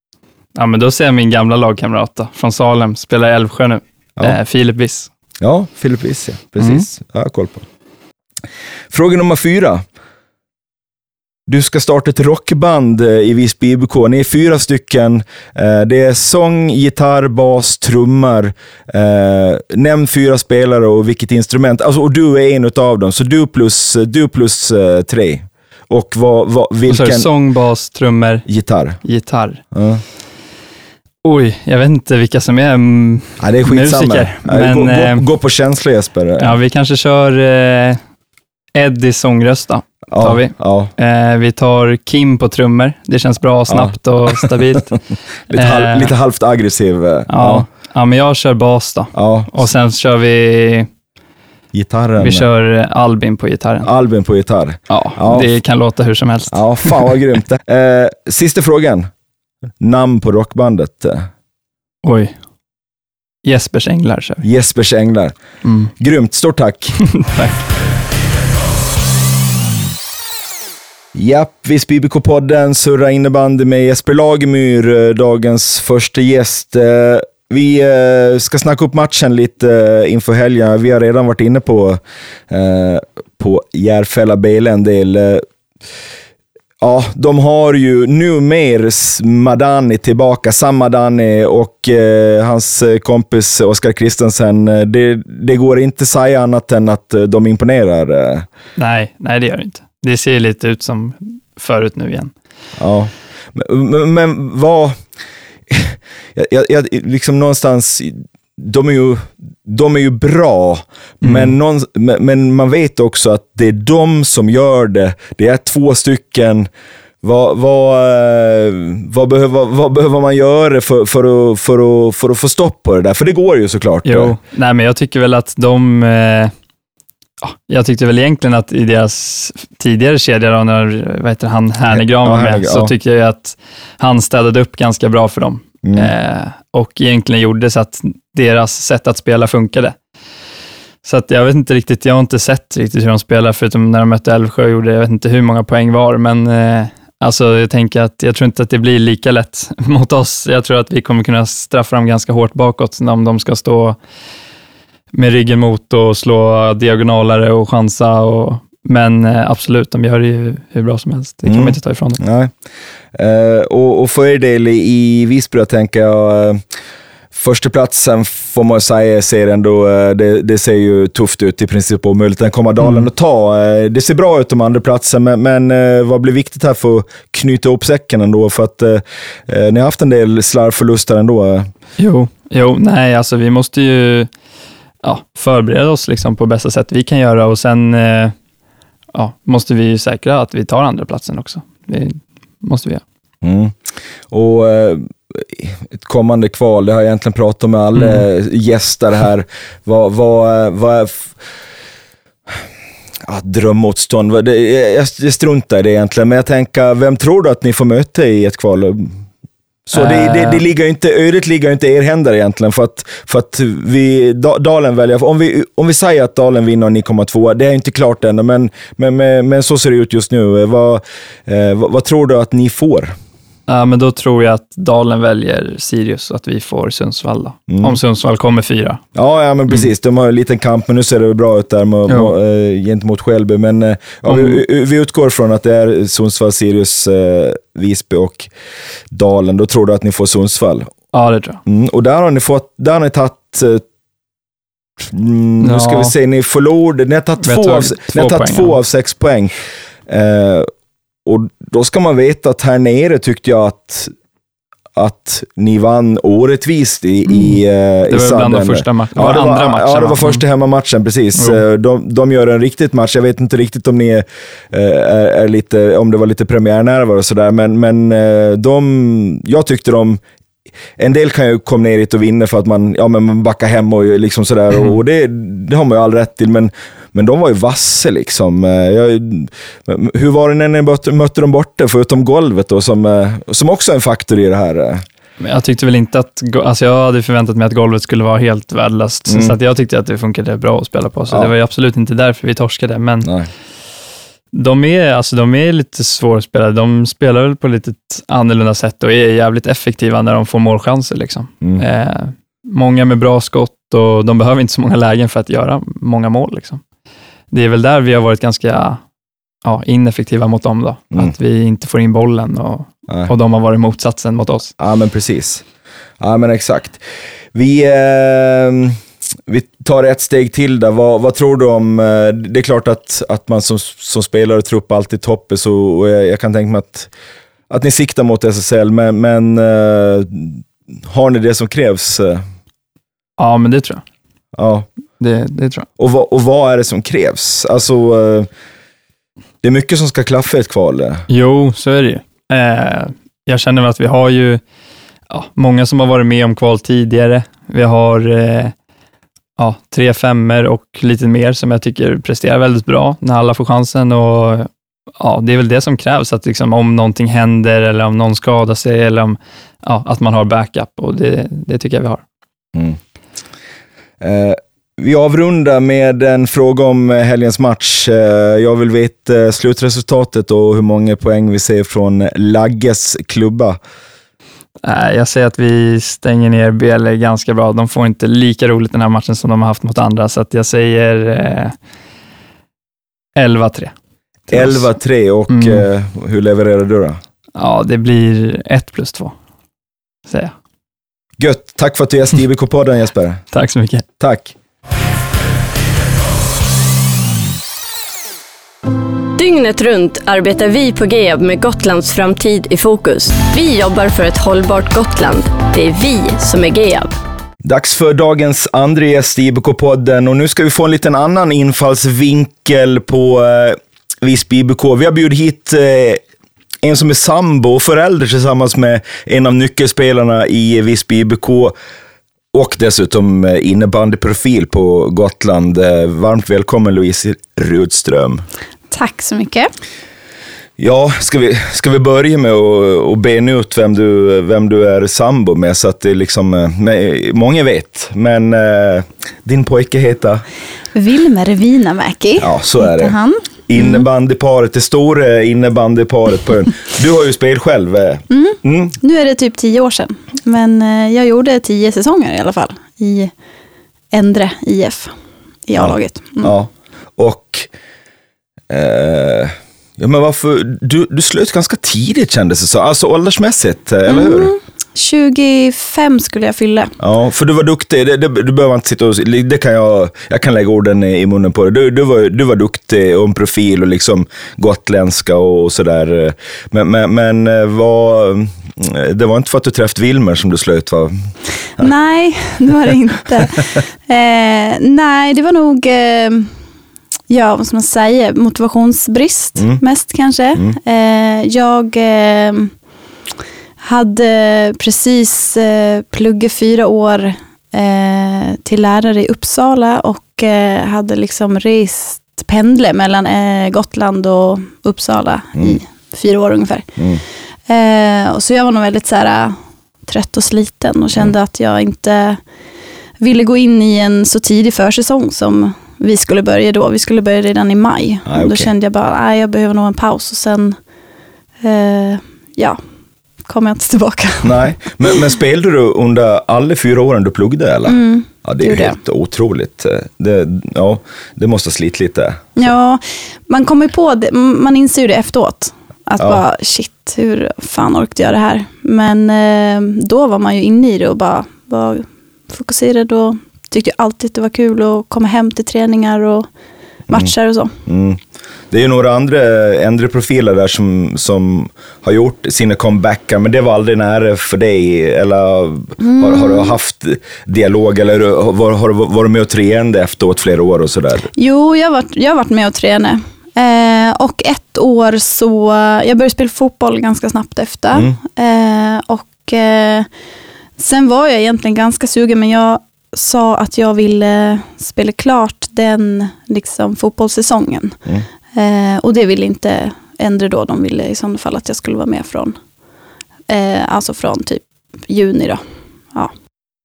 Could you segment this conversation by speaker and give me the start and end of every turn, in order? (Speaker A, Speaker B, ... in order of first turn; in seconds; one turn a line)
Speaker A: 0.6-5.1
Speaker B: 5.4-7.7
Speaker A: 6.6-6.9
Speaker B: 8.9-9.8
Speaker B: 11.5-27.3
Speaker A: 26.9-28.5
Speaker B: 28.5-29.0
Speaker A: 29.0-29.6
Speaker B: 29.7-30.0
Speaker A: 31.2-35.2
Speaker B: 33.4-36.6
Speaker A: 36.4-38.0
Speaker A: 38.8-45.0
Speaker B: 40.1-40.9
Speaker B: 43.7-44.5
Speaker B: 45.5-47.7
Speaker A: 45.5-46.1
Speaker A: 47.3-50.9
Speaker B: 49.1-49.5
Speaker B: 51.7-52.5
Speaker A: 52.2-53.9
Speaker B: 53.8-55.5
Speaker A: 54.9-57.2
Speaker B: 56.5-59.1
Speaker B: 59.8-61.3
Speaker A: 62.0-62.3
Speaker A: 63.4-64.5
Speaker B: 64.4-65.4
Speaker A: 65.6-65.9
Speaker B: 66.0-67.0
Speaker A: 67.1-67.7
Speaker B: 71.1-85.5
Speaker B: 86.8-98.5
Speaker A: 98.8-102.3
Speaker B: 102.8-105.0
Speaker B: 105.7-116.7
Speaker A: 111.2-111.5
Speaker B: 117.2-124.4
Speaker A: 124.0-126.5
Speaker A: 127.4-140.0
Speaker B: 131.9-132.9
Speaker B: 135.8-136.1
Speaker A: 141.0-154.0
Speaker A: 155.1-162.2
Speaker B: 161.4-162.5
Speaker B: 163.1-166.6
Speaker B: 167.3-181.7
Speaker A: 172.8-173.1
Speaker A: 182.0-184.3
Speaker A: 185.0-188.3
Speaker A: 189.1-193.0
Speaker B: 193.4-193.8
Speaker B: 194.3-201.3
Speaker A: 197.9-198.2
Speaker B: 203.2-209.2
Speaker B: 209.9-223.1
Speaker A: 209.9-210.6
Speaker A: 223.7-229.0
Speaker B: 227.7-228.0
Speaker B: 229.2-238.5
Speaker A: 232.1-232.3
Speaker A: 234.3-234.6
Speaker B: 239.1-240.9
Speaker A: 241.1-241.6
Speaker B: 241.7-243.8
Speaker B: 245.0-249.6
Speaker A: 245.6-246.1
Speaker A: 247.4-248.8
Speaker B: 250.1-250.7
Speaker B: 251.2-254.1
Speaker B: 255.0-270.2
Speaker A: 257.3-257.6
Speaker A: 258.1-260.4
Speaker A: 261.4-261.6
Speaker B: 271.0-285.0
Speaker A: 285.4-293.3
Speaker B: 289.3-289.6
Speaker B: 293.2-293.5
Speaker A: 294.5-306.8
Speaker A: 307.5-309.0
Speaker A: 309.6-314.7
Speaker B: 314.8-315.6
Speaker B: 316.2-317.0
Speaker B: 317.5-327.1
Speaker B: 327.7-332.4
Speaker A: 333.4-334.0
Speaker B: 334.5-334.9
Speaker A: 335.2-335.9
Speaker B: 336.0-338.5
Speaker B: 339.6-341.3
Speaker A: 341.3-344.6
Speaker A: 345.3-348.8
Speaker A: 349.6-362.2
Speaker B: 364.2-373.8
Speaker A: 374.8-381.8
Speaker A: 383.4-383.9
Speaker A: 384.5-384.9
Speaker B: 384.5-387.2
Speaker A: 385.5-385.9
Speaker A: 387.6-389.4
Speaker A: 390.3-390.6
Speaker B: 391.4-393.4
Speaker A: 393.5-394.0
Speaker B: 394.2-394.5
Speaker C: 399.4-407.2
Speaker B: 407.6-416.2
Speaker B: 416.8-421.8
Speaker B: 422.5-428.4
Speaker D: 428.9-429.7
Speaker B: 430.8-440.4
Speaker D: 440.9-444.0
Speaker B: 442.4-443.1
Speaker B: 443.7-449.0
Speaker D: 448.3-453.3
Speaker D: 454.1-455.1
Speaker D: 455.7-456.5
Speaker B: 455.8-457.7
Speaker B: 458.7-464.5
Speaker D: 464.1-466.9
Speaker B: 467.0-481.1
Speaker D: 481.8-486.5
Speaker D: 487.3-492.7
Speaker D: 493.8-506.9
Speaker D: 507.7-512.4
Speaker D: 513.2-520.8
Speaker B: 518.3-518.7
Speaker D: 521.6-522.8
Speaker D: 523.5-524.6
Speaker B: 524.4-532.5
Speaker D: 527.9-529.0
Speaker D: 532.6-546.5
Speaker D: 547.1-547.7
Speaker B: 547.9-561.3
Speaker D: 556.0-556.7
Speaker D: 561.4-570.1
Speaker D: 570.8-578.0
Speaker D: 578.5-582.6
Speaker D: 583.5-585.6